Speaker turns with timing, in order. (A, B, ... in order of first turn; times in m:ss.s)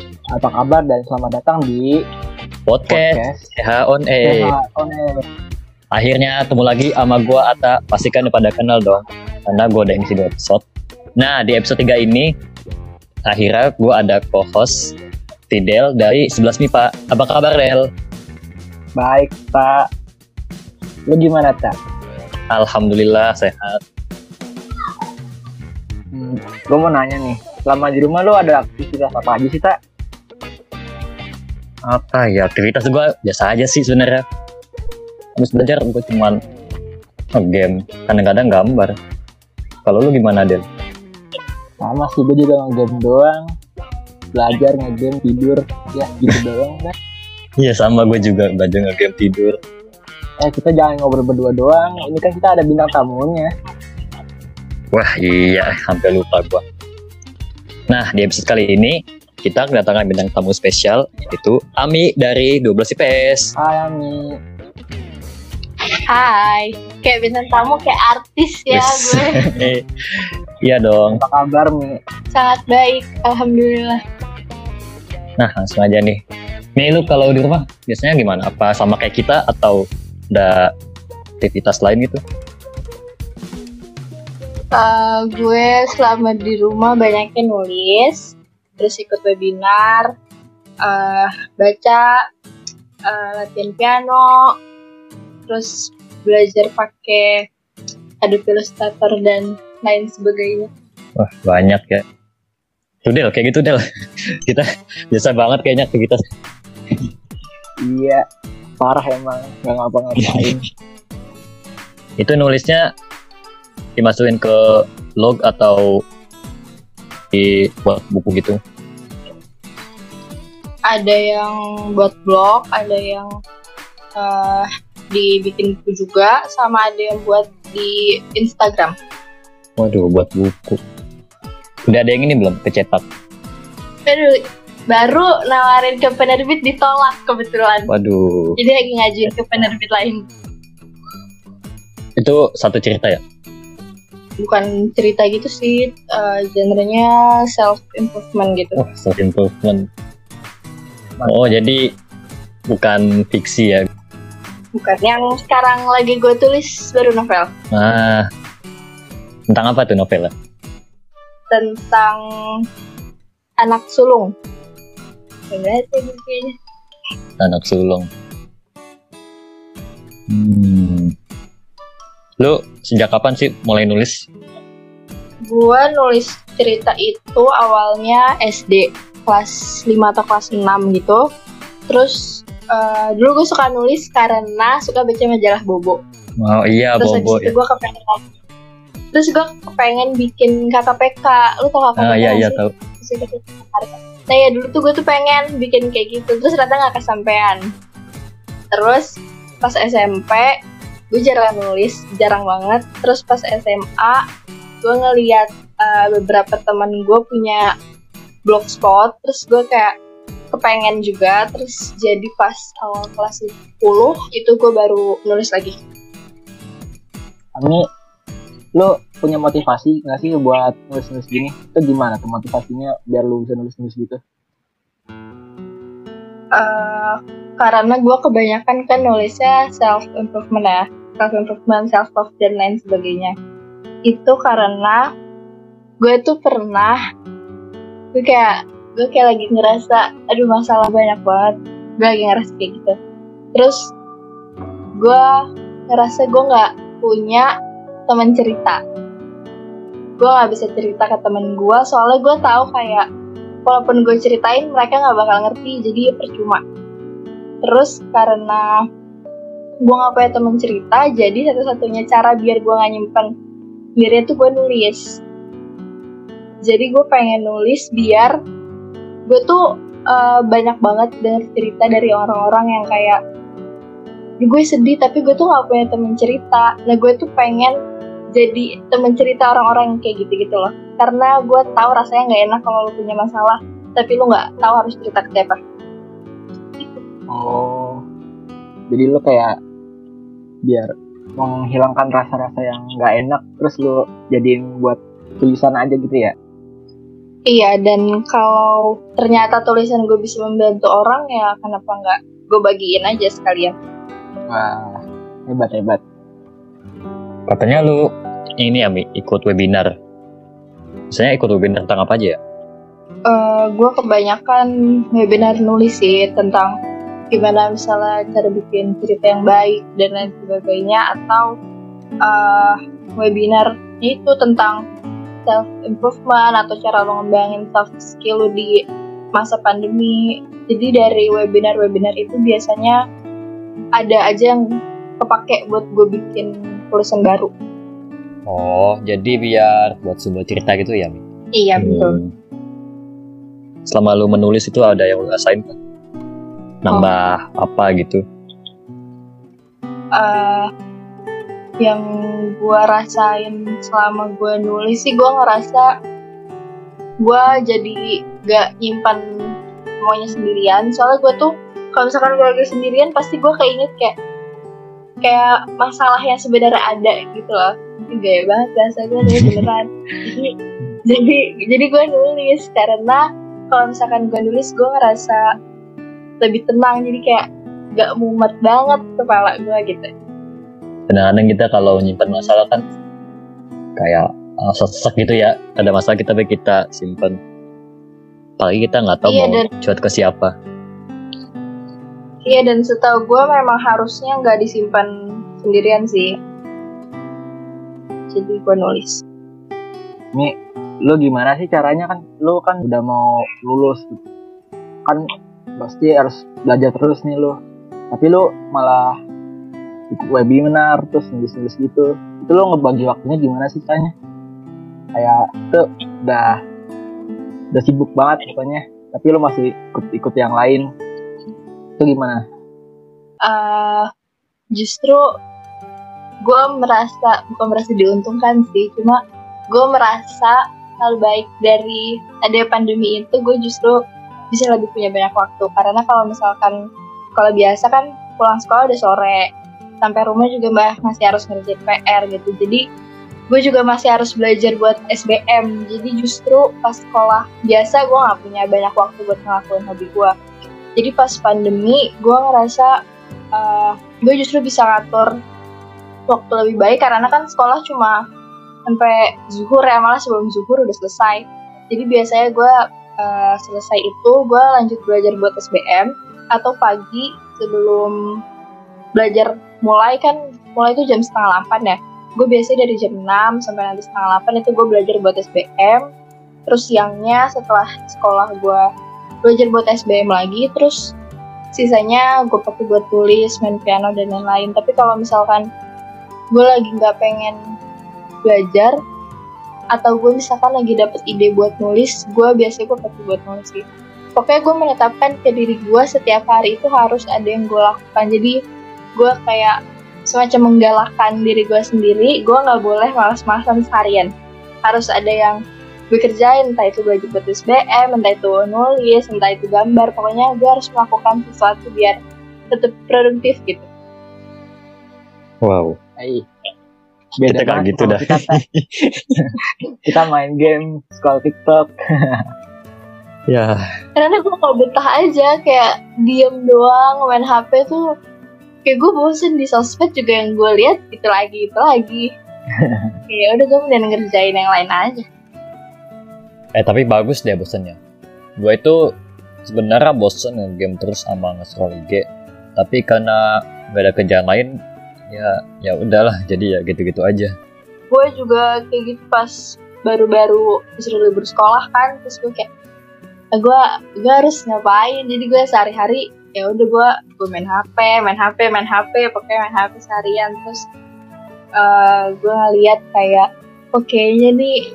0:00.3-0:01.9 A
0:02.7-0:04.5 B
0:02.9-0:03.5 A
0:04.2-0:05.1 A
0:05.9-0:10.6 B
0:11.2-0:12.3 B
0:13.3-0:14.9 B
0:15.5-0:17.9 B
0:19.0-0:19.9 A
0:21.1-0:21.8 A
0:22.5-0:23.8 B
0:26.1-0:29.8 A
0:31.8-0:34.2 B
0:35.4-0:36.4 B
0:37.4-0:39.0 B
0:39.8-0:40.6 B
0:41.8-0:43.5 A
0:44.3-0:46.9 A
0:47.6-0:49.6 B
0:50.4-0:53.5 A
0:54.9-0:56.6 B
0:57.9-1:03.5 B
1:03.6-1:04.3 A
1:06.1-1:09.4 C
1:08.7-1:11.2 B
1:11.1-1:12.0 A
1:12.3-1:14.0 C
1:15.4-1:16.2 B
1:16.8-1:20.7 B
1:21.4-1:22.2 B
1:24.7-1:30.1 C
1:30.8-1:32.1 C
1:33.0-1:34.5 C
1:35.5-1:37.4 C
1:38.2-1:40.7 C
1:41.2-1:42.0 B
1:43.0-1:43.8 B
1:44.4-1:46.2 B
1:47.8-1:48.2 A
1:48.8-1:50.6 A
1:52.2-1:52.8 B
1:54.0-1:55.9 B
1:57.3-1:58.6 B
2:00.9-2:03.3 C
2:04.2-2:09.0 C
2:09.8-2:10.8 B
2:11.9-2:13.0 B
2:14.1-2:14.4 C
2:14.9-2:17.9 C
2:17.9-2:18.6 B
2:18.6-2:20.2 C
2:22.2-2:23.2 B
2:24.4-2:28.8 C
2:28.8-2:29.9 B
2:31.2-2:31.6 A
2:31.2-2:31.8 B
2:32.7-2:33.9 B
2:34.7-2:37.5 C
2:37.7-2:38.2 B
2:39.5-2:40.3 B
2:41.5-2:42.2 C
2:43.6-2:44.3 C
2:45.5-2:46.5 C
2:47.4-2:48.1 B
2:50.3-2:51.1 B
2:52.4-2:54.3 B
2:55.5-3:01.2 C
3:01.9-3:06.0 C
3:06.4-3:07.5 B
3:07.0-3:08.2 C
3:09.1-3:17.6 C
3:12.0-3:12.7 B
3:18.7-3:20.5 C
3:21.1-3:24.2 C
3:24.8-3:27.7 C
3:28.5-3:29.9 C
3:30.5-3:35.8 C
3:37.6-3:37.8 A
3:38.8-3:44.2 A
3:46.5-3:53.3 C
3:54.1-3:55.0 C
3:56.0-3:57.0 C
3:58.1-4:02.9 C
4:03.5-4:03.9 C
4:05.0-4:05.4 C
4:05.9-4:07.5 C
4:08.1-4:08.8 C
4:10.2-4:13.1 C
4:13.6-4:16.6 C
4:17.6-4:18.8 C
4:19.8-4:23.3 C
4:24.0-4:25.2 C
4:26.6-4:28.3 C
4:29.3-4:33.2 C
4:34.4-4:37.7 C
4:38.3-4:45.6 C
4:47.3-4:48.0 A
4:48.9-4:49.5 A
4:50.6-4:56.3 A
4:57.5-5:03.7 C
5:04.5-5:06.0 A
5:07.5-5:08.0 B
5:08.6-5:09.9 B
5:11.1-5:12.4 B
5:13.3-5:16.7 C
5:17.3-5:21.5 C
5:22.2-5:24.8 C
5:25.4-5:28.8 C
5:29.3-5:33.0 C
5:34.0-5:34.6 C
5:35.2-5:37.5 C
5:38.5-5:41.2 B
5:41.6-5:42.2 C
5:41.8-5:42.3 B
5:43.9-5:45.7 B
5:46.8-5:48.2 B
5:50.2-5:50.7 C
5:51.8-5:55.9 C
5:57.2-5:59.2 C
6:00.0-6:04.1 C
6:05.2-6:10.5 C
6:09.3-6:09.6 B
6:11.1-6:15.4 C
6:16.4-6:20.1 C
6:21.1-6:22.8 B
6:24.0-6:27.4 B
6:28.6-6:30.5 B
6:29.2-6:29.7 C
6:32.4-6:36.4 C
6:38.3-6:39.2 C
6:41.0-6:44.2 A
6:45.8-6:47.6 A
6:48.1-6:49.2 A
6:50.1-6:54.1 A
6:55.1-6:56.6 A
6:57.7-7:00.8 A
7:02.0-7:02.4 A
7:03.4-7:04.1 C
7:04.7-7:05.3 C
7:06.4-7:09.2 C
7:09.7-7:14.0 C
7:14.5-7:16.8 C
7:17.4-7:19.5 C
7:20.0-7:22.8 C
7:23.5-7:30.3 C
7:31.0-7:32.9 C
7:33.5-7:35.3 C
7:36.3-7:38.2 C
7:38.9-7:48.1 C
7:49.2-7:56.0 C
7:56.7-7:58.8 C
7:59.4-8:01.1 C
8:01.7-8:05.6 C
8:06.5-8:07.6 C
8:08.4-8:08.9 C
8:09.9-8:13.8 C
8:14.4-8:18.6 C
8:19.2-8:24.3 C
8:24.8-8:25.6 C
8:26.1-8:32.2 C
8:32.7-8:33.9 C
8:35.6-8:36.0 B
8:36.2-8:36.4 A
8:37.4-8:38.6 A
8:37.4-8:39.4 B
8:40.0-8:42.4 A
8:43.5-8:43.8 B
8:44.2-8:48.0 C
8:48.8-8:52.3 C
8:53.3-8:55.2 C
8:56.7-8:58.0 B
8:58.6-8:59.1 B
8:59.6-9:04.7 B
9:05.3-9:07.5 B
9:08.1-9:12.7 C
9:13.5-9:20.8 C
9:21.8-9:24.8 C